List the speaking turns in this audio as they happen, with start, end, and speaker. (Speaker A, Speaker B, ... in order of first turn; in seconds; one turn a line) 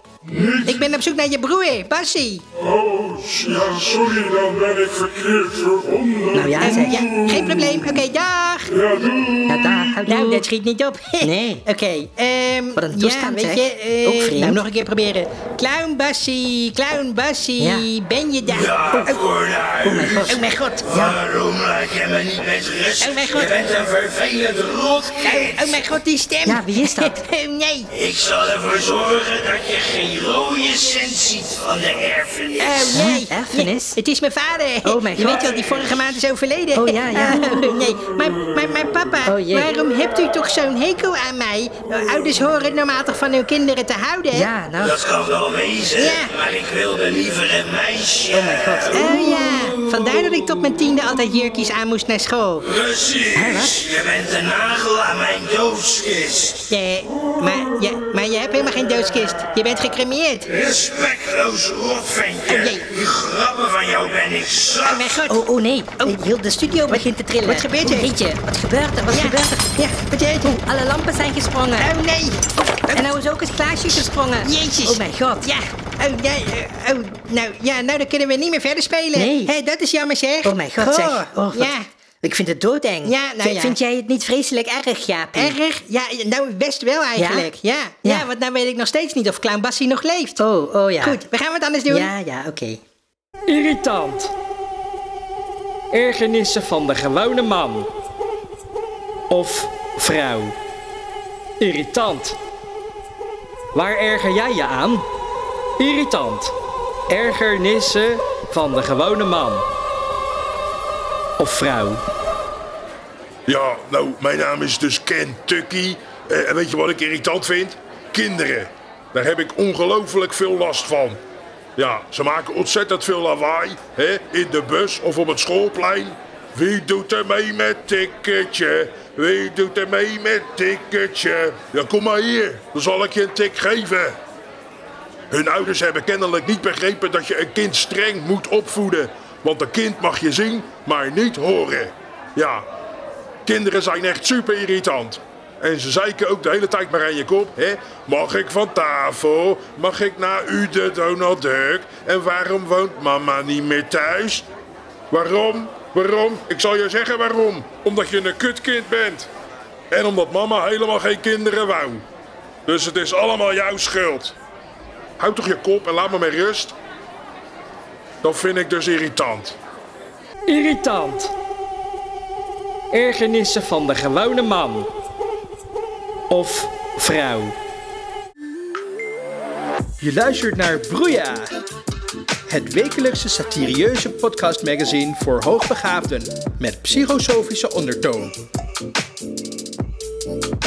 Speaker A: 0.3-0.6
Speaker B: 0.6-2.4
Speaker A: 2.8-6.4
Speaker C: 6.3-7.1
Speaker B: 6.6-9.1
Speaker C: 9.4-10.4
Speaker B: 10.1-19.4
Speaker C: 11.2-11.6
Speaker C: 12.8-14.6
Speaker C: 17.6-17.9
Speaker C: 18.9-21.3
Speaker D: 19.4-19.8
Speaker B: 20.0-21.2
Speaker D: 21.3-23.0
Speaker B: 23.0-23.9
Speaker D: 23.8-25.1
Speaker B: 24.9-28.0
Speaker C: 26.5-27.2
Speaker D: 28.0-32.5
Speaker B: 32.5-44.5
Speaker C: 32.9-34.0
Speaker C: 34.9-35.5
Speaker C: 36.8-37.5
Speaker C: 39.3-39.8
Speaker C: 44.3-45.2
Speaker D: 45.2-45.9
Speaker B: 45.9-46.5
Speaker D: 46.4-48.3
Speaker C: 48.2-49.2
Speaker B: 48.9-52.9
Speaker D: 53.0-53.3
Speaker C: 53.3-54.0
Speaker D: 53.9-56.6
Speaker B: 56.7-60.8
Speaker D: 60.7-62.4
Speaker B: 62.4-63.1
Speaker D: 63.1-64.8
Speaker B: 64.7-65.4
Speaker C: 65.3-71.9
Speaker B: 66.9-68.1
Speaker B: 69.1-70.6
Speaker B: 71.8-73.1
Speaker C: 72.9-75.5
Speaker B: 74.4-81.9
Speaker C: 79.2-79.5
Speaker C: 80.4-85.6
Speaker B: 83.0-83.8
Speaker B: 85.3-90.4
Speaker C: 87.2-87.5
Speaker C: 90.4-91.2
Speaker B: 91.0-92.1
Speaker C: 91.9-92.8
Speaker E: 93.5-94.3
Speaker E: 95.9-97.9
Speaker E: 99.3-100.5
Speaker E: 101.6-102.4
Speaker E: 103.7-105.1
Speaker E: 105.8-106.5
Speaker E: 107.1-109.7
Speaker E: 111.4-112.0
Speaker A: 113.5-121.2
Speaker A: 121.8-134.2
Speaker A: 135.3-142.7
Speaker A: 143.5-154.5
Speaker A: 155.1-159.3
Speaker A: 159.9-162.0
Speaker A: 162.7-164.3
Speaker A: 165.2-166.8
Speaker A: 168.2-169.6
Speaker E: 170.5-171.3
Speaker E: 172.9-174.9
Speaker E: 176.3-177.6
Speaker F: 180.0-181.5
Speaker F: 182.5-188.3